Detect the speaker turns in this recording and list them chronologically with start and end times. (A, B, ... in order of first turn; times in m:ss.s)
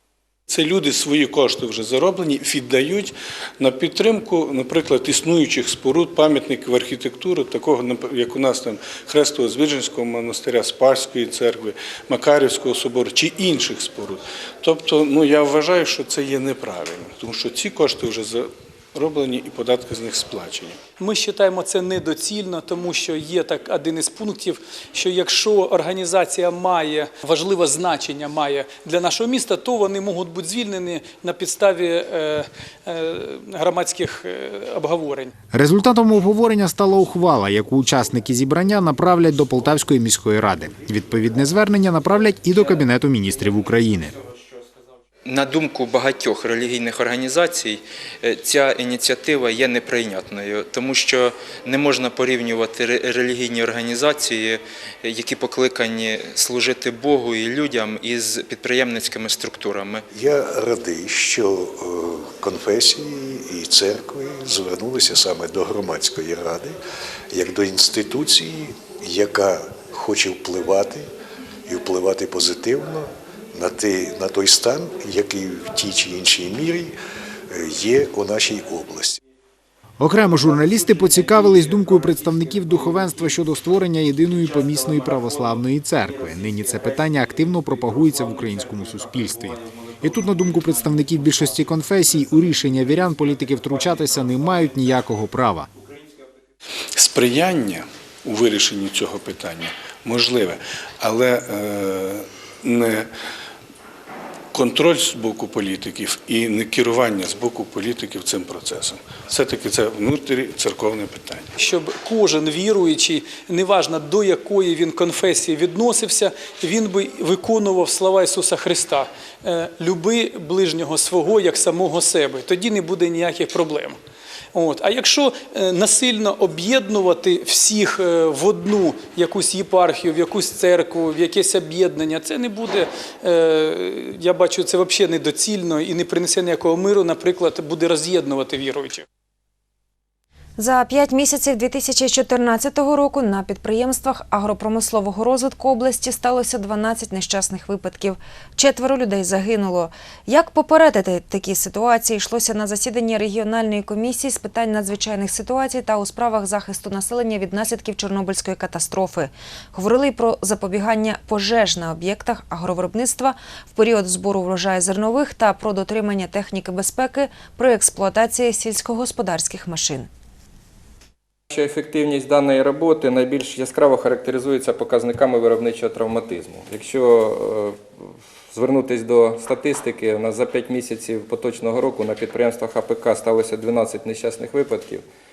0:00.5-0:20.8 A
0:21.0-0:35.3 B
0:35.5-0:44.1 C
0:45.2-1:00.0 D
1:00.1-1:06.8 E
1:07.3-1:11.0 E
1:11.7-1:16.9 E
1:17.5-1:19.2 E
1:20.0-1:35.7 C
1:36.9-1:43.1 A
1:44.5-1:51.5 A
1:51.6-2:04.0 B
2:04.5-2:19.0 B
2:20.6-2:50.1 F
2:51.5-3:05.0 G